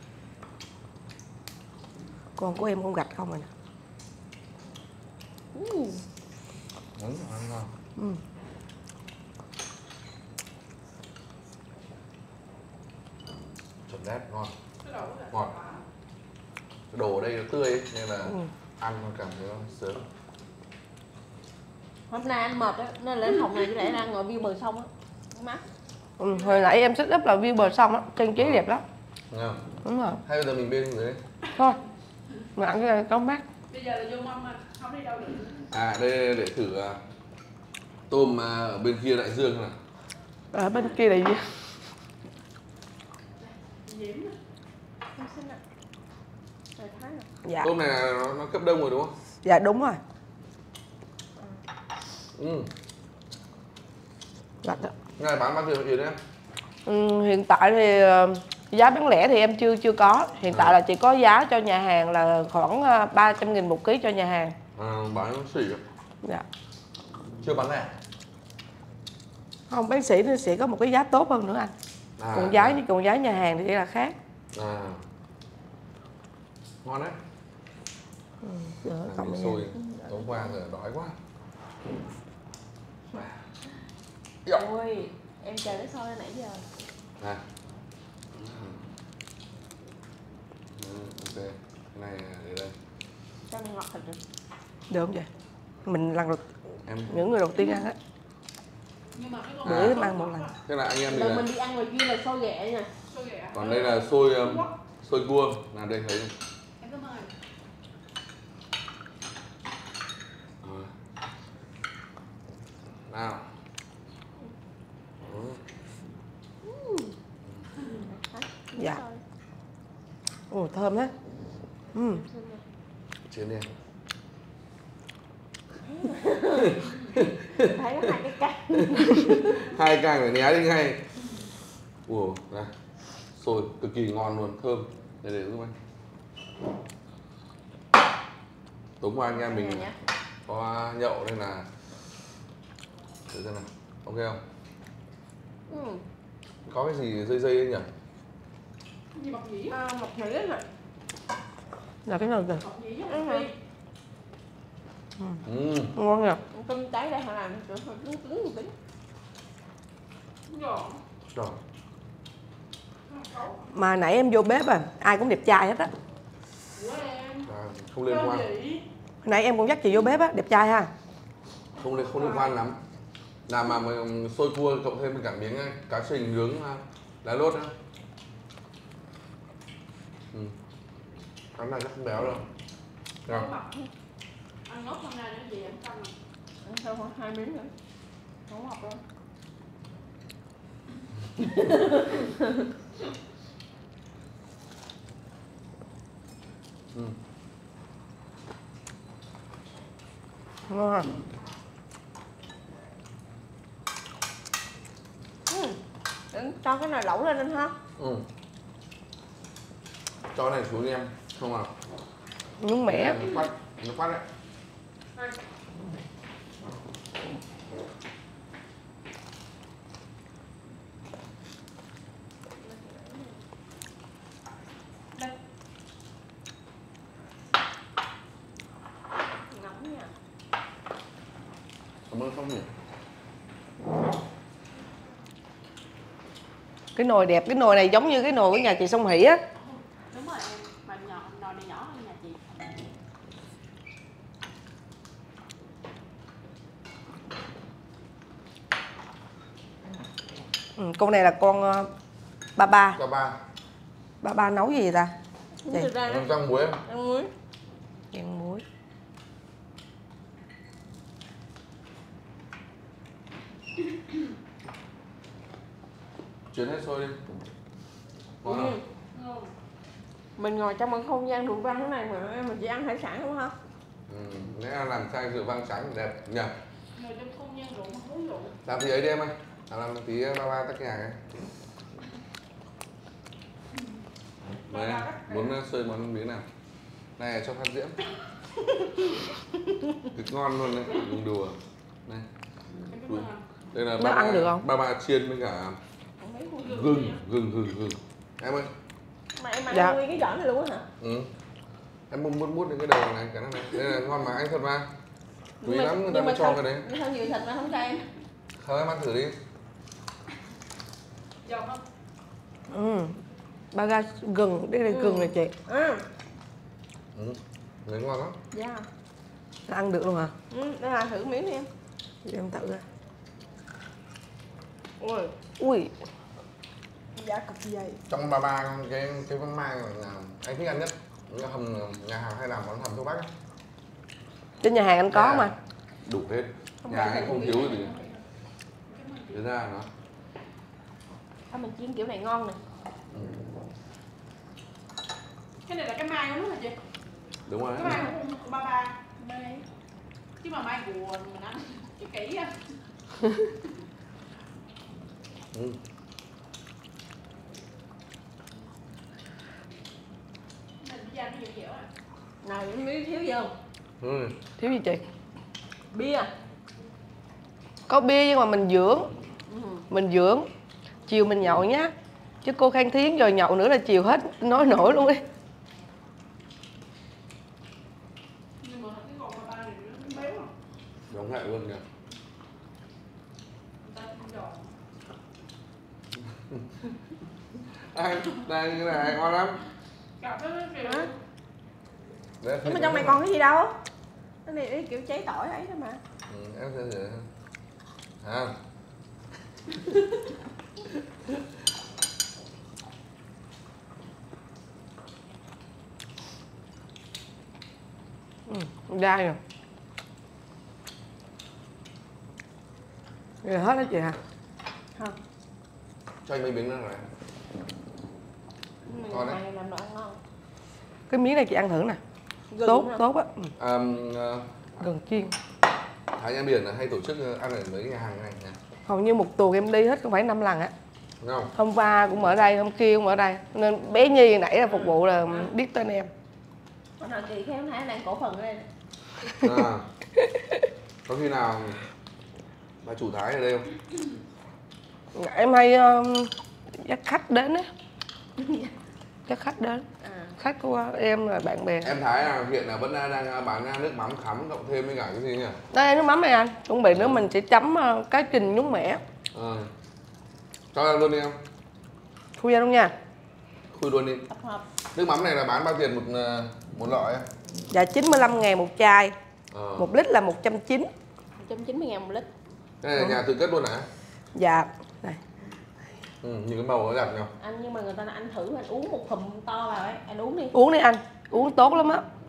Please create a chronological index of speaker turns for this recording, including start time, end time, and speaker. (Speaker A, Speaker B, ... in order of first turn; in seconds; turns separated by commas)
Speaker A: 2.4-3.5, Speaker B: 5.5-6.0, Speaker C: 7.0-7.7, Speaker C: 13.9-14.5, Speaker D: 14.8-15.8, Speaker C: 16.9-20.1, Speaker B: 22.1-25.6, Speaker A: 26.2-28.8, Speaker C: 28.4-28.6, Speaker C: 29.3-29.6, Speaker A: 29.9-30.2, Speaker C: 30.3-31.2, Speaker A: 32.6-33.4, Speaker D: 33.7-35.7, Speaker C: 35.7-37.0, Speaker C: 38.1-39.8, Speaker A: 40.5-41.5, Speaker D: 43.4-44.4, Speaker B: 45.1-45.6, Speaker B: 46.8-47.3, Speaker A: 47.5-47.7, Speaker C: 47.6-49.1, Speaker A: 49.5-50.0, Speaker C: 52.4-52.7, Speaker A: 54.6-54.9, Speaker C: 55.2-56.2, Speaker A: 56.9-64.5, Speaker C: 60.5-60.8, Speaker C: 64.8-65.8, Speaker C: 67.4-67.9, Speaker A: 69.7-71.7, Speaker C: 72.2-72.8, Speaker A: 72.3-74.1, Speaker C: 74.5-75.0, Speaker C: 76.8-77.2, Speaker A: 78.4-79.6, Speaker C: 79.0-81.2, Speaker B: 79.8-80.5, Speaker B: 84.5-86.7, Speaker C: 88.3-88.8, Speaker C: 90.7-92.7, Speaker B: 93.5-94.2, Speaker A: 94.9-95.3, Speaker A: 95.9-96.4, Speaker C: 96.9-97.3, Speaker A: 97.1-98.0, Speaker D: 99.1-100.6, Speaker C: 99.7-100.0, Speaker A: 99.7-100.5, Speaker C: 100.7-101.5, Speaker B: 101.1-102.9, Speaker D: 103.1-104.7, Speaker C: 103.5-106.3, Speaker D: 106.8-107.3, Speaker C: 110.6-110.9, Speaker C: 113.1-113.4, Speaker C: 115.3-115.6, Speaker B: 116.6-117.1, Speaker B: 117.9-119.2, Speaker A: 120.5-121.1, Speaker A: 122.0-122.2, Speaker B: 122.1-122.6, Speaker C: 123.3-123.7, Speaker B: 125.8-126.9, Speaker C: 126.5-128.2, Speaker D: 126.9-127.1, Speaker B: 127.4-129.5, Speaker C: 128.8-131.0, Speaker C: 132.1-132.7, Speaker C: 133.4-135.7, Speaker C: 139.0-139.9, Speaker B: 139.3-139.9, Speaker C: 140.5-141.7, Speaker C: 143.3-144.4, Speaker B: 145.7-146.0, Speaker C: 146.7-147.9, Speaker D: 149.2-149.8, Speaker B: 149.7-150.7, Speaker A: 152.1-152.6, Speaker D: 152.6-153.6, Speaker B: 153.1-153.5, Speaker C: 155.4-155.9, Speaker A: 155.9-156.4, Speaker B: 156.5-158.7, Speaker D: 160.5-161.0, Speaker D: 163.1-163.7, Speaker A: 163.7-165.9, Speaker D: 166.8-167.5, Speaker C: 167.5-168.5, Speaker D: 168.1-168.8, Speaker A: 169.2-170.9, Speaker C: 171.8-172.8, Speaker D: 172.1-172.6, Speaker C: 173.5-177.7, Speaker C: 181.6-182.5, Speaker B: 183.3-183.9, Speaker D: 184.7-186.1, Speaker B: 186.6-187.7, Speaker B: 188.5-189.0, Speaker B: 191.5-192.7, Speaker A: 200.7-201.1, Speaker B: 205.5-205.8, Speaker B: 206.3-207.8, Speaker C: 208.0-208.3, Speaker C: 210.3-211.7, Speaker A: 212.6-213.2, Speaker C: 212.9-214.2, Speaker B: 222.6-223.4, Speaker B: 229.4-230.1, Speaker C: 232.1-232.7, Speaker A: 237.0-239.4, Speaker D: 239.6-242.8, Speaker A: 250.8-251.9, Speaker A: 252.6-253.0, Speaker C: 252.9-253.4, Speaker A: 254.2-255.1, Speaker B: 255.6-257.3, Speaker C: 256.0-256.8, Speaker A: 258.1-258.6, Speaker C: 266.5-267.2, Speaker C: 268.4-268.8, Speaker B: 268.4-268.8, Speaker D: 269.1-269.5, Speaker B: 270.4-273.5, Speaker C: 274.1-276.5, Speaker D: 276.9-278.6, Speaker C: 278.6-281.2, Speaker D: 284.7-285.6, Speaker C: 284.7-286.4, Speaker C: 287.2-288.0, Speaker C: 290.1-292.3, Speaker D: 292.9-293.4, Speaker C: 293.1-295.8, Speaker A: 294.0-294.6, Speaker B: 296.2-297.0, Speaker D: 296.6-297.2, Speaker C: 296.7-298.7, Speaker B: 299.4-300.9, Speaker A: 299.7-300.0, Speaker C: 301.0-301.3, Speaker C: 302.1-304.9, Speaker B: 305.6-308.1, Speaker C: 305.6-306.9, Speaker C: 308.6-309.4, Speaker D: 311.4-311.8, Speaker A: 312.7-313.2, Speaker A: 313.7-315.5, Speaker B: 314.9-316.1, Speaker C: 317.1-318.4, Speaker B: 318.5-318.9, Speaker A: 319.7-320.3, Speaker B: 320.5-321.7, Speaker A: 322.2-322.8, Speaker B: 325.0-325.3, Speaker A: 325.6-325.9, Speaker B: 327.2-328.0, Speaker C: 328.1-333.3, Speaker A: 334.6-335.5, Speaker C: 335.1-335.5, Speaker C: 336.1-337.9, Speaker B: 336.8-338.2, Speaker D: 338.9-339.4, Speaker C: 339.3-339.9, Speaker B: 341.5-342.6, Speaker C: 343.1-343.4, Speaker D: 345.7-346.8, Speaker C: 347.5-348.1, Speaker D: 347.7-349.0, Speaker B: 347.8-348.2, Speaker B: 349.2-349.6, Speaker D: 350.4-352.6, Speaker C: 355.5-355.8, Speaker D: 360.8-361.9, Speaker B: 362.4-363.5, Speaker C: 364.0-364.4, Speaker A: 364.6-365.0, Speaker B: 365.9-366.3, Speaker A: 367.9-369.1, Speaker B: 369.5-369.9, Speaker A: 369.9-370.5, Speaker A: 371.1-371.9, Speaker A: 372.4-375.2, Speaker D: 378.6-380.5, Speaker C: 381.1-381.8, Speaker D: 383.8-384.7, Speaker C: 386.4-386.9, Speaker C: 387.9-389.6, Speaker D: 390.2-391.2, Speaker B: 390.8-391.1, Speaker C: 392.4-393.2, Speaker B: 392.6-393.8, Speaker B: 394.4-396.0, Speaker C: 396.3-397.3, Speaker C: 398.2-398.5, Speaker A: 408.5-409.4, Speaker A: 413.4-414.2, Speaker C: 416.2-417.1, Speaker B: 418.9-420.2, Speaker C: 419.1-419.4, Speaker A: 421.1-422.0, Speaker B: 422.5-423.0, Speaker A: 422.6-423.5, Speaker C: 423.6-424.5, Speaker A: 424.8-425.3, Speaker C: 426.1-428.6, Speaker A: 428.9-430.7, Speaker C: 431.2-431.5, Speaker A: 431.6-436.1, Speaker B: 437.0-438.7, Speaker C: 439.4-439.9, Speaker C: 441.1-441.8, Speaker C: 442.8-443.7, Speaker A: 445.1-447.7, Speaker B: 448.4-448.7, Speaker A: 449.3-449.9, Speaker B: 450.0-450.4, Speaker A: 450.4-451.9, Speaker C: 451.8-455.6, Speaker A: 455.7-459.0, Speaker C: 456.9-457.2, Speaker C: 459.3-459.7, Speaker C: 460.7-461.4, Speaker A: 462.4-462.9, Speaker C: 463.7-464.3, Speaker B: 464.3-464.6, Speaker C: 464.9-467.3, Speaker A: 467.7-469.1, Speaker C: 469.5-469.9, Speaker A: 469.8-470.9, Speaker B: 471.4-472.3, Speaker C: 472.8-473.9, Speaker A: 474.4-475.2, Speaker C: 476.2-477.3, Speaker B: 477.4-480.6, Speaker A: 480.5-482.0